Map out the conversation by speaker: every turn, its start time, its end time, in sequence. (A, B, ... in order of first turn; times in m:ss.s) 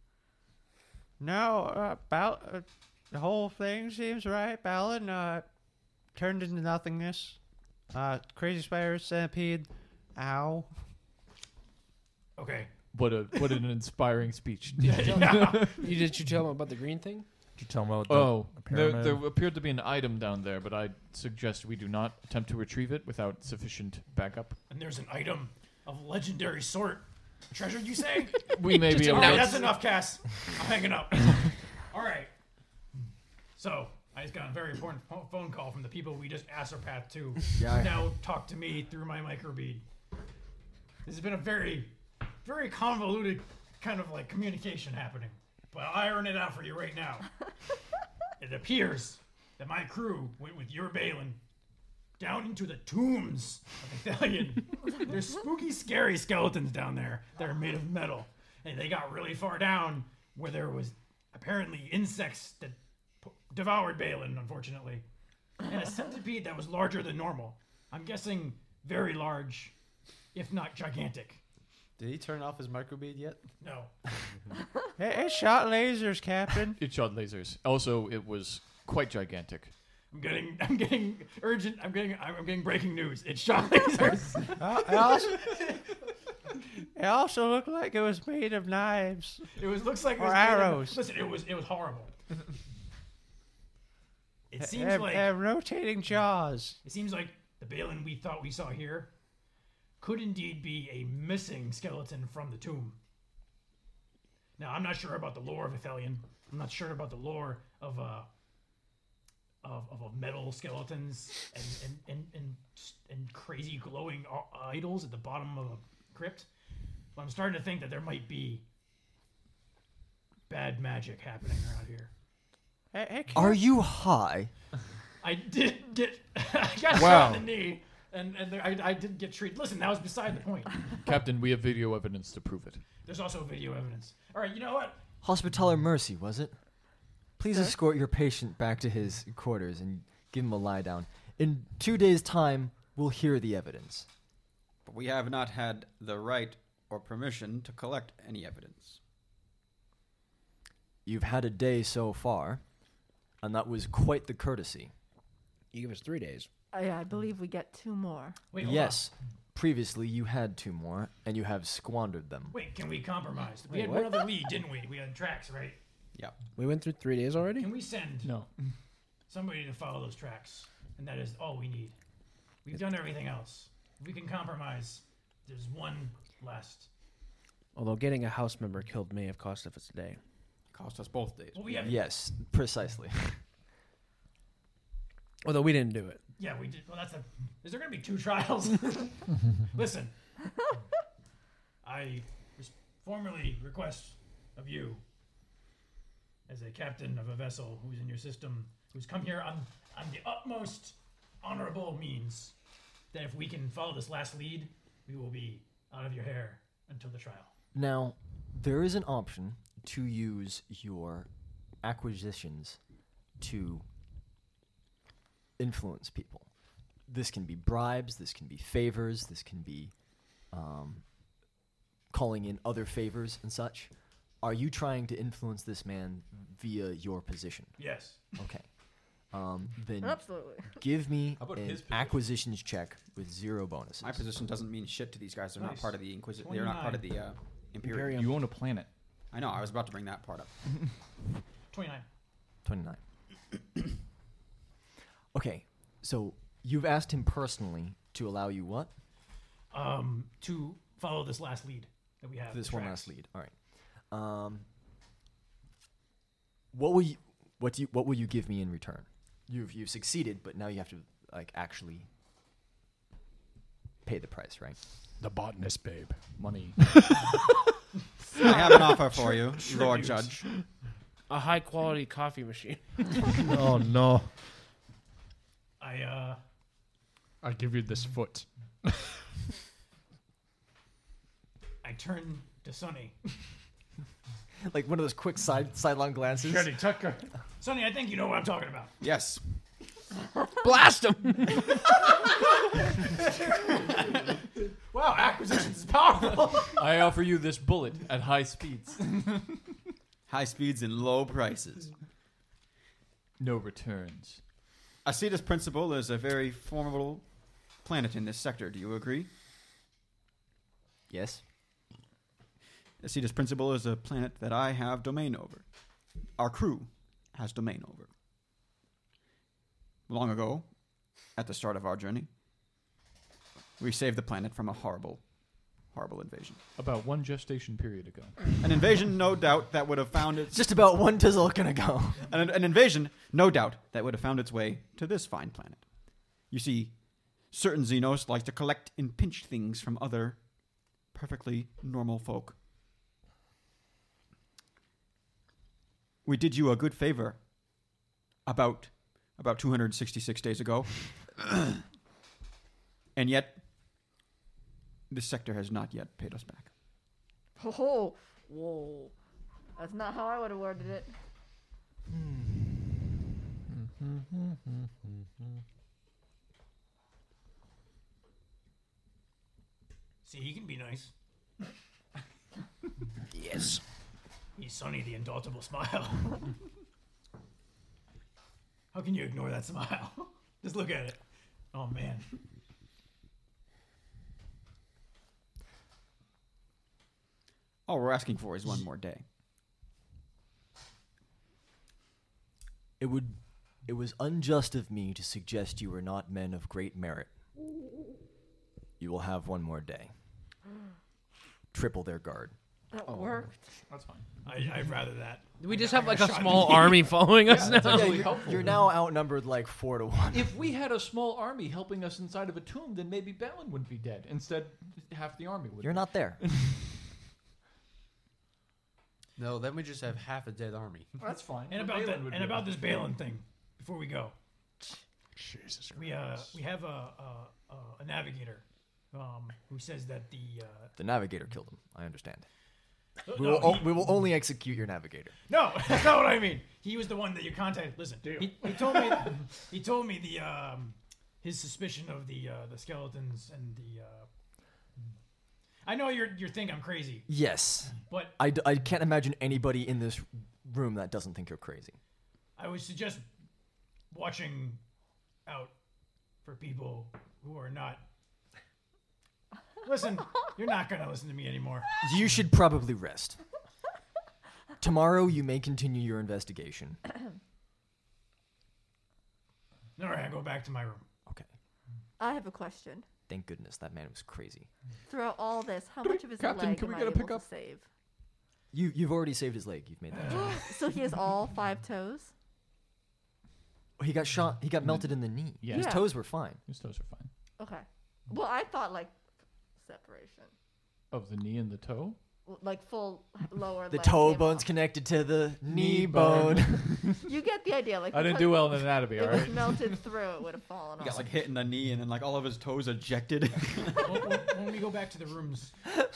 0:01.2-0:05.5 A
0:06.1-0:07.4 A
0:07.9-0:10.7 A
0:12.4-0:12.7 B
0:12.9-0:16.0 C
0:14.8-0:15.9 B
0:15.2-0:17.2 D
0:17.6-0:19.2 E
0:18.1-0:24.6 C
0:24.7-0:32.3 B
0:28.4-0:29.7 C
0:28.7-0:29.8 D
0:33.6-0:39.8 B
0:37.6-0:38.1 F
0:41.0-0:47.3 B
0:48.4-0:51.4 B
0:52.2-1:05.0 B
1:05.6-1:09.7 B
1:10.3-1:11.4 B
1:12.0-1:13.4 G
1:13.6-1:13.9 B
1:15.0-1:16.8 A
1:16.8-1:19.7 C
1:20.1-1:25.9 B
1:24.6-1:25.5 A
1:26.9-1:29.5 A
1:29.5-1:32.1 B
1:30.2-1:31.0 A
1:34.5-1:35.4 B
1:34.6-1:36.8 A
1:36.8-1:39.1 B
1:40.0-1:43.0 B
1:44.6-1:48.3 B
1:49.6-1:56.5 B
1:57.2-1:58.6 B
2:00.5-2:02.1 B
2:02.9-2:03.6 A
2:03.3-2:04.5 F
2:05.2-2:10.8 B
2:06.9-2:07.5 E
2:11.0-2:12.8 C
2:13.0-2:15.0 B
2:15.2-2:16.5 F
2:17.4-2:24.1 F
2:24.8-2:29.0 H
2:31.0-2:32.6 F
2:33.4-2:34.9 F
2:35.7-2:36.5 D
2:36.7-2:38.4 I
2:38.5-2:39.0 B
2:38.6-2:42.5 F
2:42.5-2:45.8 B
2:43.7-2:44.2 D
2:46.1-2:46.4 H
2:46.6-2:47.7 D
2:47.6-2:48.3 B
2:48.2-2:48.5 C
2:49.3-2:52.0 B
2:52.6-2:56.9 B
2:57.7-3:00.2 D
3:00.7-3:02.0 H
3:01.5-3:02.0 B
3:01.8-3:03.4 F
3:05.4-3:06.2 D
3:06.4-3:10.1 B
3:11.8-3:15.0 B
3:16.5-3:22.5 B
3:23.1-3:27.5 B
3:27.7-3:31.3 F
3:31.8-3:32.8 F
3:33.4-3:33.8 F
3:35.6-3:36.5 F
3:37.1-3:39.9 F
3:40.5-3:41.0 F
3:42.1-3:43.9 F
3:44.4-3:47.7 F
3:47.8-3:48.2 B
3:48.4-3:48.7 F
3:49.3-3:54.2 F
3:50.0-3:50.8 I
3:51.4-3:52.2 C
3:54.0-3:58.2 H
3:55.6-3:57.0 B
3:57.8-3:58.5 D
3:58.1-3:58.9 C
3:59.3-4:00.5 H
4:01.7-4:02.0 B
4:02.6-4:03.0 F
4:05.3-4:08.9 F
4:09.7-4:13.1 B
4:12.5-4:13.5 F
4:14.1-4:14.6 F
4:16.7-4:22.1 F
4:24.0-4:24.8 F
4:25.2-4:26.2 E
4:26.4-4:26.8 C
4:26.8-4:27.4 E
4:28.4-4:30.4 H
4:28.4-4:30.4 B
4:31.3-4:33.5 D
4:33.4-4:34.3 E
4:35.8-4:36.4 B
4:37.4-4:39.1 E
4:41.8-4:43.2 B
4:44.6-4:46.8 F
4:46.4-4:47.3 E
4:47.6-4:48.9 B
4:49.0-4:49.4 H
4:50.6-4:51.7 D
4:53.6-4:54.2 B
4:54.9-4:56.8 B
4:56.7-4:59.4 C
5:00.3-5:01.9 H
5:03.4-5:04.4 C
5:05.0-5:07.2 H
5:07.8-5:09.3 H
5:11.1-5:11.4 F
5:13.0-5:15.7 H
5:16.4-5:18.1 H
5:20.1-5:20.7 H
5:21.3-5:22.3 H
5:23.8-5:25.3 H
5:25.9-5:26.6 H
5:26.8-5:28.6 C
5:28.6-5:30.6 H
5:30.5-5:32.3 F
5:32.2-5:40.4 H
5:41.1-5:42.6 H
5:46.2-5:47.4 H
5:48.4-5:51.5 H
5:53.1-5:53.6 H
5:55.1-5:56.7 H
5:57.6-5:59.1 I
5:59.8-6:01.1 I
6:02.1-6:03.0 F
6:04.0-6:04.5 E
6:10.2-6:11.1 B
6:13.4-6:13.8 D
6:14.6-6:16.5 B
6:18.9-6:21.2 B
6:21.7-6:22.3 B
6:27.9-6:29.2 H
6:33.0-6:37.3 F
6:39.0-6:40.1 F
6:41.7-6:42.5 F
6:42.9-6:43.6 I
6:43.9-6:44.3 C
6:44.4-6:47.1 B
6:45.6-6:48.4 D
6:47.4-6:48.8 C
6:47.6-6:50.5 F
6:50.3-6:56.8 C
6:55.8-6:56.4 F
6:59.4-7:01.1 G
7:01.2-7:02.7 C
7:01.7-7:04.3 B
7:05.4-7:06.0 E
7:05.9-7:10.9 B
7:11.0-7:12.5 F
7:13.2-7:14.1 B
7:13.3-7:15.4 F
7:15.5-7:24.3 B
7:25.8-7:27.3 B
7:27.3-7:32.0 F
7:28.0-7:28.4 B
7:32.6-7:33.2 B
7:34.1-7:34.8 B
7:35.4-7:35.7 B
7:36.4-7:38.0 B
7:39.8-7:41.9 B
7:42.0-7:43.4 F
7:44.8-7:47.0 F
7:50.0-7:51.0 B
7:52.2-7:53.0 I
7:53.3-7:54.7 F
7:55.1-7:57.8 I
7:56.0-7:57.4 C
7:58.7-8:00.6 F
8:00.3-8:02.3 I
8:04.0-8:06.6 F
8:04.8-8:07.3 C
8:05.7-8:06.0 I
8:07.6-8:09.1 I
8:09.8-8:10.5 I
8:11.1-8:12.2 C
8:12.4-8:14.7 I
8:13.9-8:17.1 F
8:15.7-8:17.2 C
8:17.2-8:21.3 I
8:18.1-8:20.0 C
8:21.0-8:24.3 H
8:24.0-8:25.7 B